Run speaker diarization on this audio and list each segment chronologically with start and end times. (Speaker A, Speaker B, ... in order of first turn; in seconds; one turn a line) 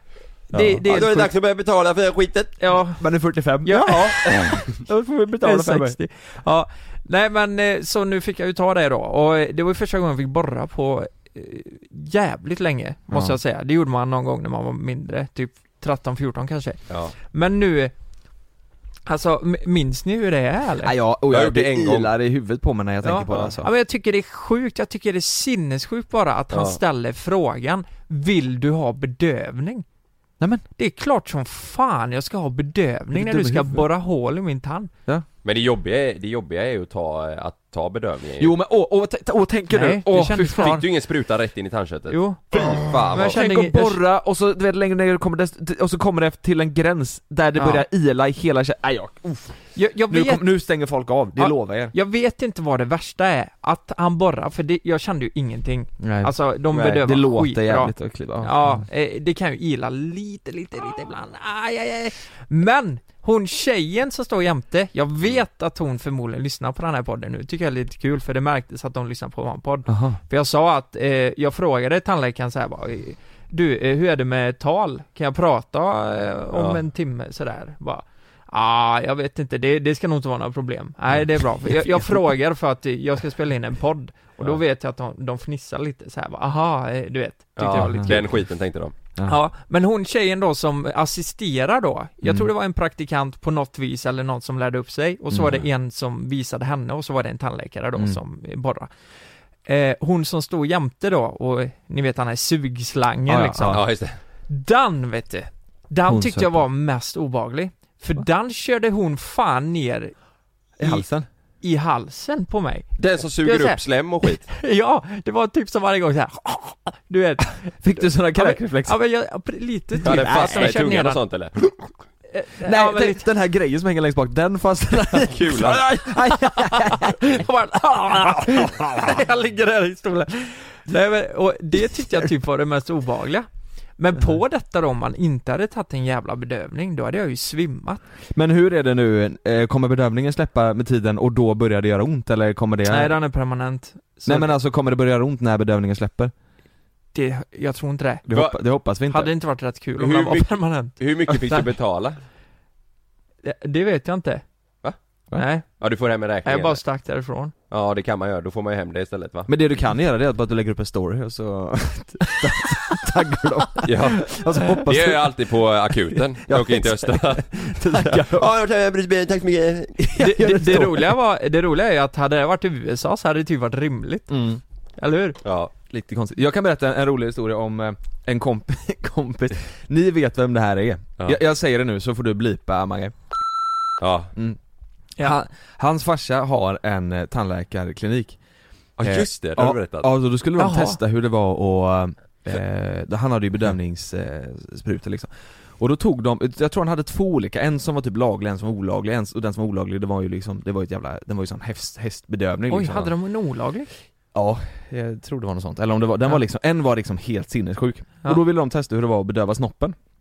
Speaker A: 0.5-1.3
Speaker B: 0.5-2.6
Speaker A: 2.6-3.0
Speaker C: 3.0-6.0
Speaker A: 3.6-4.2
Speaker A: 5.4-17.9
Speaker C: 13.1-13.4
Speaker B: 16.9-17.1
Speaker A: 19.1-20.9
Speaker C: 20.8-23.7
Speaker B: 21.3-22.1
Speaker A: 23.0-29.9
Speaker B: 26.5-26.8
Speaker A: 30.8-34.9
Speaker C: 33.1-33.9
Speaker B: 35.4-38.5
Speaker C: 38.4-40.8
Speaker A: 39.7-40.9
Speaker B: 40.6-43.4
Speaker A: 42.1-44.0
Speaker C: 42.5-51.9
Speaker A: 47.5-47.9
Speaker A: 49.8-50.5
Speaker A: 51.4-88.2
Speaker C: 56.0-58.9
Speaker C: 69.9-70.2
Speaker C: 81.6-82.2
Speaker B: 87.6-88.9
Speaker C: 87.8-88.3
Speaker A: 89.2-98.9
Speaker C: 92.2-92.5
Speaker C: 95.3-95.6
Speaker A: 99.7-103.9
Speaker C: 103.3-103.8
Speaker B: 103.7-104.2
Speaker A: 104.5-110.1
Speaker C: 106.1-106.6
Speaker A: 110.8-111.0
Speaker C: 110.8-111.3
Speaker A: 111.6-121.2
Speaker B: 113.0-114.4
Speaker C: 117.8-119.0
Speaker C: 120.0-120.8
Speaker B: 120.0-121.6
Speaker A: 122.3-123.2
Speaker C: 122.6-127.4
Speaker B: 125.1-125.9
Speaker A: 126.3-133.5
Speaker C: 128.0-129.2
Speaker A: 134.0-138.0
Speaker C: 138.3-143.1
Speaker A: 142.9-144.5
Speaker C: 144.2-146.3
Speaker A: 147.1-148.2
Speaker C: 148.3-149.3
Speaker B: 148.3-148.6
Speaker A: 149.1-151.7
Speaker B: 150.0-152.2
Speaker A: 153.4-154.4
Speaker A: 155.3-155.7
Speaker B: 155.8-156.8
Speaker A: 156.4-157.5
Speaker B: 157.7-159.5
Speaker C: 159.5-168.5
Speaker B: 163.8-164.3
Speaker B: 164.8-170.0
Speaker C: 170.0-171.1
Speaker A: 170.2-174.3
Speaker C: 174.3-174.6
Speaker A: 175.0-175.4
Speaker B: 175.4-175.7
Speaker C: 175.9-183.1
Speaker B: 184.0-184.3
Speaker C: 185.2-188.4
Speaker B: 189.0-190.1
Speaker C: 189.0-203.1
Speaker A: 190.6-191.0
Speaker A: 202.7-203.9
Speaker C: 204.3-210.0